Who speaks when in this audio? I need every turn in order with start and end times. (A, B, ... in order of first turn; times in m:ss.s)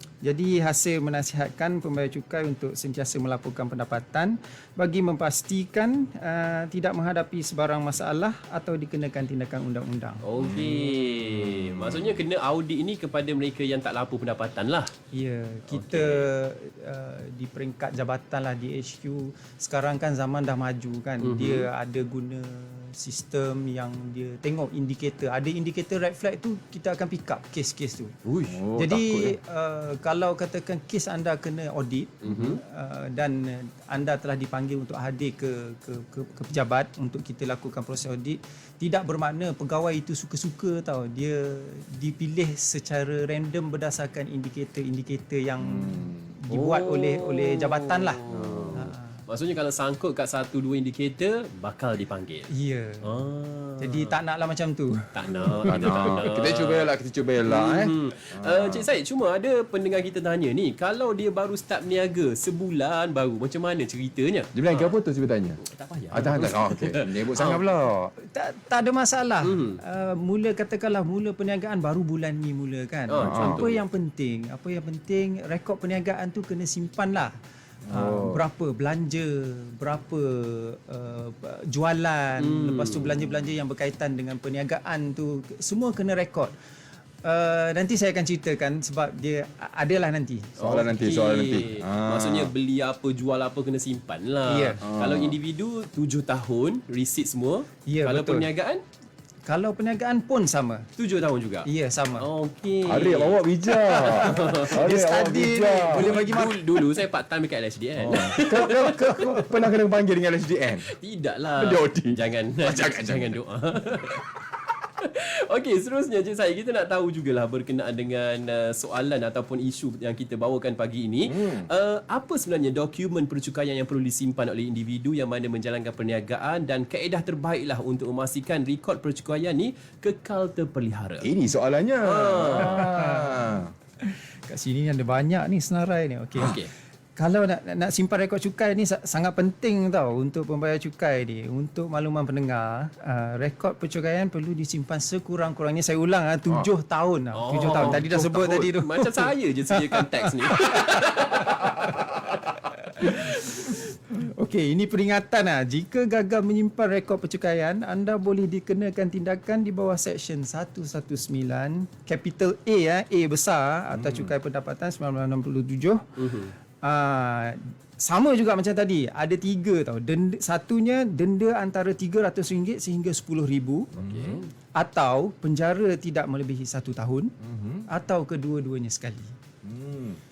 0:00.2-0:10.2 A
0:10.2-0:14.9 B
0:10.4-0:12.2 C
0:15.1-0:28.1 A
0:15.7-0:16.3 B
0:21.2-0:21.7 B
0:28.2-0:28.5 B
0:28.5-0:29.4 C
0:28.8-0:48.2 A
0:32.2-0:32.6 B
0:45.6-0:46.3 C
0:46.5-0:52.5 B
0:48.3-0:48.8 C
0:48.7-0:49.2 A
0:52.5-0:53.1 A
0:53.0-0:54.1 B
0:53.8-0:55.0 A
0:55.1-0:56.9 B
0:55.6-0:58.9 C
0:57.4-1:04.9 B
1:04.5-1:05.6 C
1:05.6-1:07.6 B
1:06.1-1:08.1 C
1:08.2-1:17.3 A
1:09.4-1:09.8 B
1:13.1-1:13.8 B
1:13.2-1:13.6 C
1:17.8-1:18.4 C
1:17.9-1:26.5 A
1:22.4-1:23.2 B
1:27.2-1:30.6 A
1:30.6-1:38.8 B
1:30.6-1:32.5 C
1:34.5-1:34.8 A
1:34.8-1:35.4 C
1:37.9-1:38.4 A
1:39.4-1:40.8 A
1:41.0-1:44.8 B
1:41.6-1:42.3 A
1:42.8-1:46.3 C
1:44.0-1:46.5 A
1:45.9-1:49.4 B
1:48.0-1:50.9 C
1:50.9-1:54.3 B
1:51.6-1:53.4 C
1:55.0-2:11.3 B
2:01.2-2:01.7 C
2:11.2-2:13.7 C
2:12.0-2:12.9 B
2:12.6-2:13.5 A
2:14.0-2:16.6 A
2:16.4-2:16.7 B
2:17.2-2:30.9 A
2:27.3-2:32.1 B
2:31.6-2:32.1 A
2:32.8-2:46.1 A
2:43.9-2:44.3 C
2:46.2-2:46.5 B
2:46.8-2:53.9 A
2:53.9-2:54.4 C
2:54.0-2:54.5 B
2:54.7-2:57.3 A
2:57.4-2:57.8 C
2:57.9-2:59.3 A
2:59.6-3:00.2 C